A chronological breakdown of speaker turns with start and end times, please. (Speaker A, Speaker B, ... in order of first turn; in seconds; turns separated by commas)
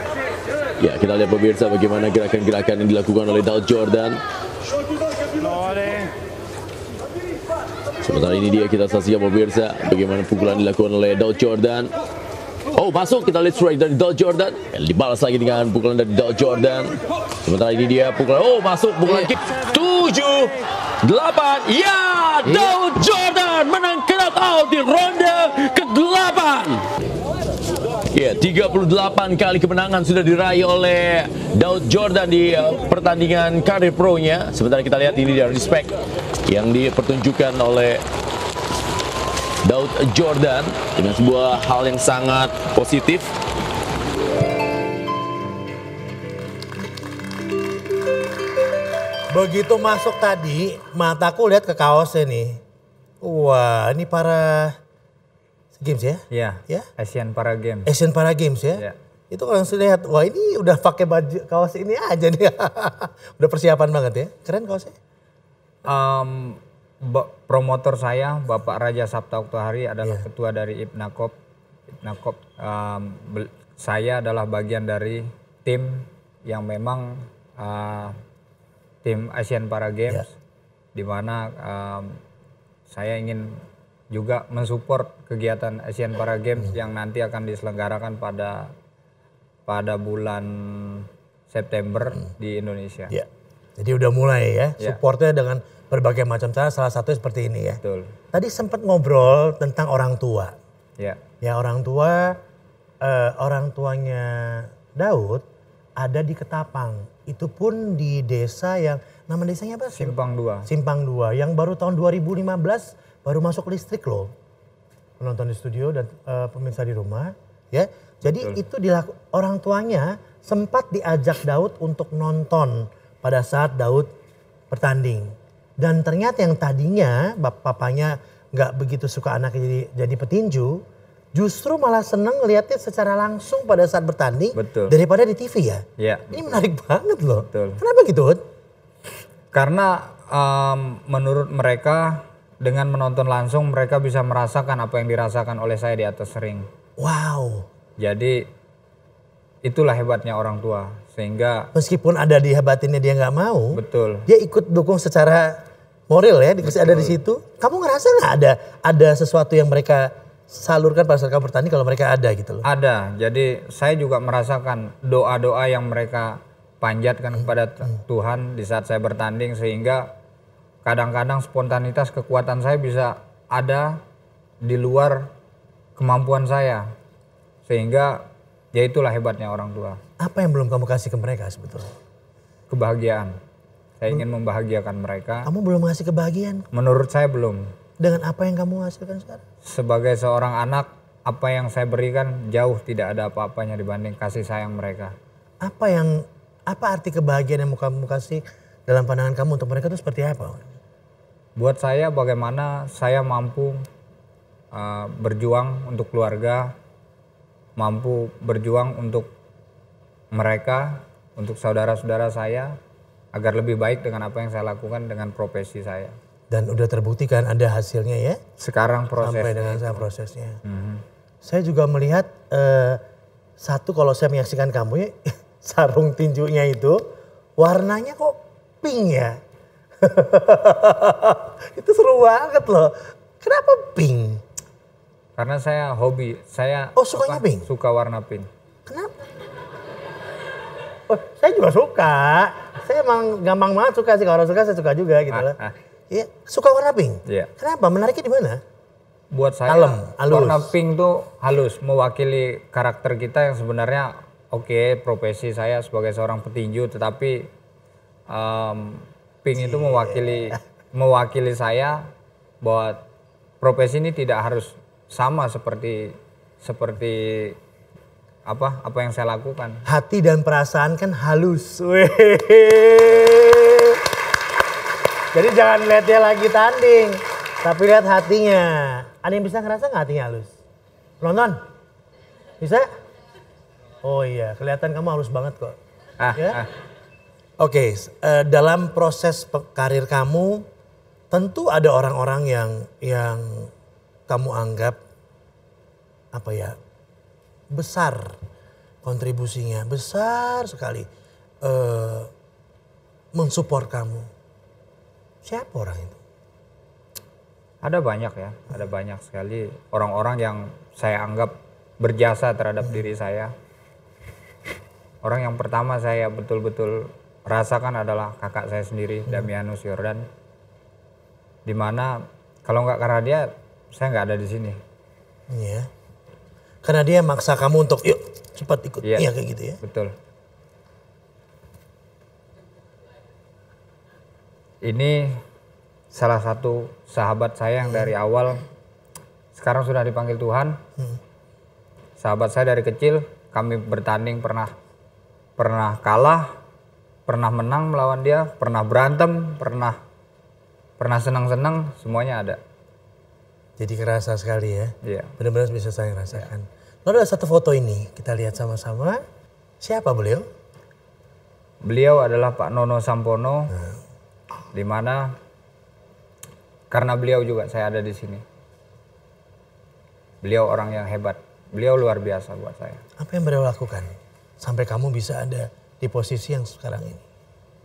Speaker A: 0.8-4.2, Speaker A: 8.0-11.9, Speaker A: 12.7-26.9, Speaker A: 28.1-36.0, Speaker A: 36.5-38.0, Speaker A: 39.6-43.3, Speaker B: 49.3-52.6, Speaker B: 53.2-54.8, Speaker B: 55.8-56.9, Speaker C: 56.3-57.9, Speaker B: 57.9-65.0, Speaker C: 65.8-71.3, Speaker C: 72.0-78.1, Speaker C: 79.0-80.3, Speaker C: 81.0-82.2, Speaker C: 82.9-83.6, Speaker C: 84.1-88.7, Speaker C: 89.7-93.1, Speaker B: 93.1-97.8, Speaker C: 97.8-98.1, Speaker B: 98.3-100.5, Speaker B: 101.4-102.4, Speaker B: 103.0-105.4, Speaker B: 106.0-114.3, Speaker C: 110.0-110.7, Speaker B: 115.2-124.1, Speaker C: 118.3-118.6, Speaker B: 124.7-130.8, Speaker B: 131.3-138.4, Speaker C: 134.6-134.9, Speaker C: 136.0-136.6, Speaker C: 137.4-137.8, Speaker C: 139.5-146.7, Speaker B: 147.0-147.7, Speaker C: 148.0-148.4, Speaker C: 149.7-151.7, Speaker B: 151.7-155.6, Speaker C: 153.7-154.3, Speaker B: 156.1-162.7, Speaker C: 156.6-157.2, Speaker C: 162.6-170.1, Speaker C: 170.8-174.0, Speaker C: 174.6-175.3, Speaker C: 176.0-176.8, Speaker C: 177.7-178.2, Speaker C: 178.7-180.0, Speaker B: 180.2-181.9, Speaker C: 182.7-183.3, Speaker C: 184.0-185.5, Speaker B: 185.4-186.7, Speaker C: 186.7-187.6, Speaker B: 188.0-189.4, Speaker C: 189.7-195.1, Speaker B: 195.6-200.7, Speaker C: 201.6-203.8, Speaker C: 204.7-206.7, Speaker C: 207.8-209.3, Speaker C: 210.3-212.8, Speaker C: 213.3-216.1, Speaker B: 216.5-218.4, Speaker C: 218.6-220.1, Speaker B: 219.2-220.6, Speaker C: 220.7-221.0, Speaker B: 221.4-223.0, Speaker B: 223.6-227.0, Speaker B: 227.6-229.4, Speaker B: 230.0-234.4, Speaker C: 235.4-238.5, Speaker B: 236.9-237.7, Speaker B: 241.1-245.6, Speaker C: 245.3-245.7, Speaker B: 246.1-248.6, Speaker C: 249.3-257.5, Speaker B: 249.7-250.8, Speaker C: 258.3-262.0, Speaker B: 259.6-260.6, Speaker C: 262.6-263.1, Speaker C: 263.6-267.6, Speaker C: 268.5-269.8, Speaker B: 269.9-274.0, Speaker B: 275.3-280.5, Speaker B: 281.2-281.6, Speaker B: 282.6-282.9, Speaker B: 284.0-285.8, Speaker C: 286.2-286.7, Speaker B: 286.4-286.6, Speaker B: 287.6-290.6, Speaker B: 291.3-293.7, Speaker B: 294.3-295.0, Speaker B: 296.3-296.8, Speaker B: 297.7-298.4, Speaker B: 299.0-301.1, Speaker B: 301.6-302.3, Speaker B: 303.4-304.3, Speaker B: 305.4-306.2, Speaker C: 307.8-313.5, Speaker C: 315.2-320.2, Speaker C: 321.6-324.8, Speaker B: 325.5-325.9, Speaker B: 326.8-329.8, Speaker C: 329.0-329.3, Speaker C: 329.8-330.1, Speaker C: 334.8-335.4, Speaker C: 336.1-338.6, Speaker B: 337.8-338.1, Speaker C: 339.6-340.8, Speaker C: 342.2-344.7, Speaker C: 345.6-346.5, Speaker C: 347.3-350.0, Speaker C: 351.0-352.6, Speaker B: 353.8-359.2, Speaker C: 355.0-355.3, Speaker B: 359.8-360.4, Speaker C: 361.8-363.7, Speaker B: 363.7-364.0, Speaker C: 364.7-365.3, Speaker C: 366.9-368.4, Speaker C: 370.4-373.0, Speaker B: 373.2-377.2